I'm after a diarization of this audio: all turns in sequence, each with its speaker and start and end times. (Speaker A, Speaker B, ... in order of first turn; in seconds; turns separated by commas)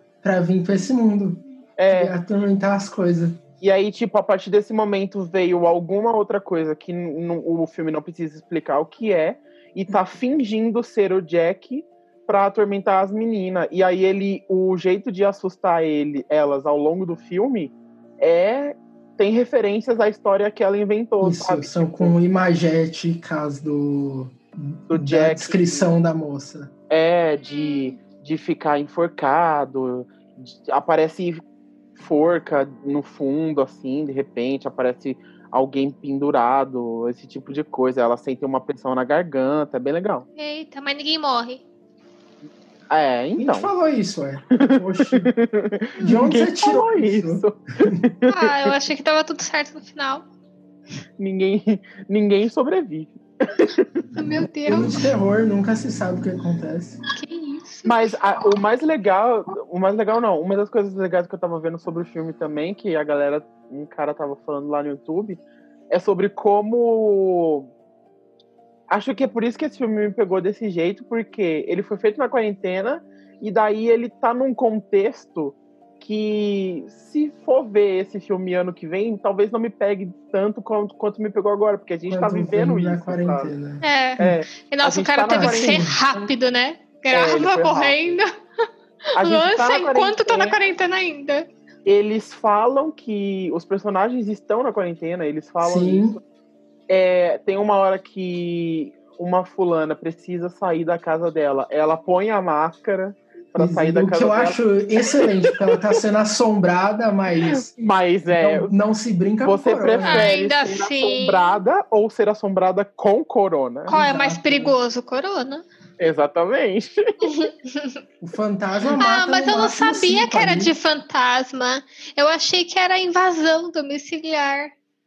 Speaker A: 0.2-3.4, Speaker B: 1.8-2.1, Speaker B: 3.6-22.1, Speaker A: 21.2-26.7, Speaker B: 24.9-25.9, Speaker B: 26.9-31.4, Speaker C: 27.4-27.9, Speaker B: 31.9-40.2, Speaker C: 40.4-41.6, Speaker B: 42.9-43.7, Speaker A: 43.4-45.3, Speaker B: 44.5-48.7, Speaker A: 46.0-48.0, Speaker C: 48.3-50.2, Speaker B: 51.2-54.0, Speaker C: 54.1-55.0, Speaker A: 54.6-57.0, Speaker C: 57.1-58.1, Speaker B: 57.8-67.7, Speaker B: 68.9-83.5, Speaker A: 82.1-84.3, Speaker C: 83.8-88.3, Speaker B: 84.2-86.2, Speaker A: 85.3-86.0, Speaker B: 87.1-88.2, Speaker B: 89.2-90.5, Speaker C: 89.2-91.5, Speaker B: 91.8-96.2, Speaker A: 95.6-96.2, Speaker B: 96.9-105.8, Speaker A: 103.5-107.7, Speaker B: 107.5-108.7, Speaker A: 108.3-110.3, Speaker B: 109.4-113.9, Speaker C: 110.0-111.6, Speaker A: 113.9-114.7, Speaker C: 113.9-115.6, Speaker B: 116.0-117.2, Speaker C: 117.2-118.0, Speaker A: 118.2-120.7, Speaker C: 118.9-124.7